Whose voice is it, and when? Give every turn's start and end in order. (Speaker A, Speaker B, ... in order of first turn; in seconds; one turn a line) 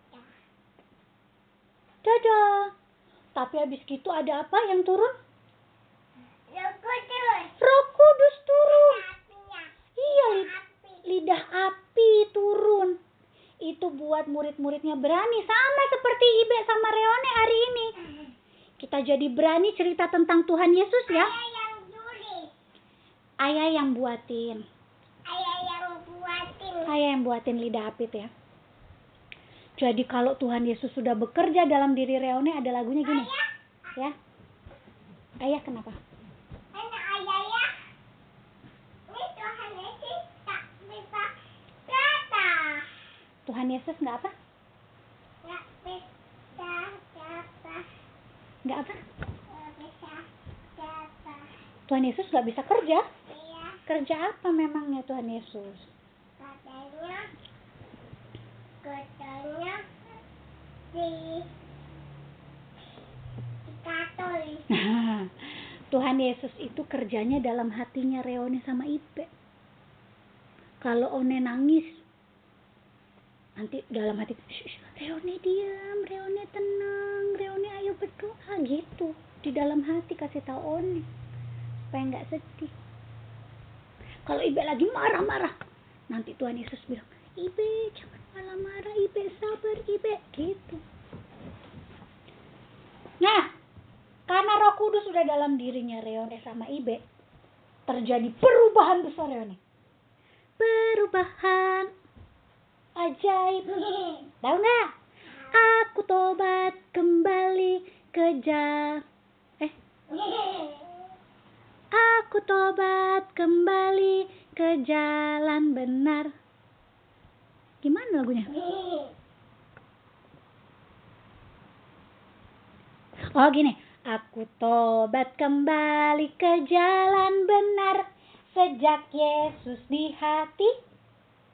Speaker A: 2.0-2.7
Speaker A: 3.3-5.1
Speaker B: 6.5-7.5
Speaker A: 7.6-9.0
Speaker B: 8.7-11.0
Speaker A: 9.9-13.0
Speaker A: 13.6-17.9
Speaker A: 18.8-21.3
Speaker B: 21.1-22.5
Speaker A: 23.4-24.6
Speaker B: 25.3-26.9
Speaker A: 26.8-28.3
Speaker A: 29.8-33.3
Speaker B: 33.0-33.5
Speaker A: 35.4-36.0
Speaker B: 36.7-37.7
Speaker B: 39.1-41.3
Speaker B: 41.9-43.0
Speaker A: 43.4-44.3
Speaker B: 45.4-47.9
Speaker A: 48.6-49.0
Speaker B: 49.5-51.5
Speaker A: 51.9-53.0
Speaker B: 53.3-53.8
Speaker A: 53.9-55.9
Speaker B: 56.4-57.3
Speaker B: 58.8-59.8
Speaker B: 60.9-61.5
Speaker B: 63.6-64.7
Speaker A: 64.7-69.3
Speaker A: 70.8-72.0
Speaker A: 73.6-81.0
Speaker A: 81.8-82.7
Speaker A: 84.2-85.5
Speaker A: 86.1-90.8
Speaker A: 93.2-93.5
Speaker A: 94.3-97.0
Speaker A: 97.9-99.6
Speaker A: 100.6-101.9
Speaker A: 103.0-104.9
Speaker A: 105.5-109.0
Speaker B: 110.2-110.8
Speaker A: 111.9-116.3
Speaker A: 117.8-118.6
Speaker B: 118.6-119.1
Speaker A: 123.3-130.7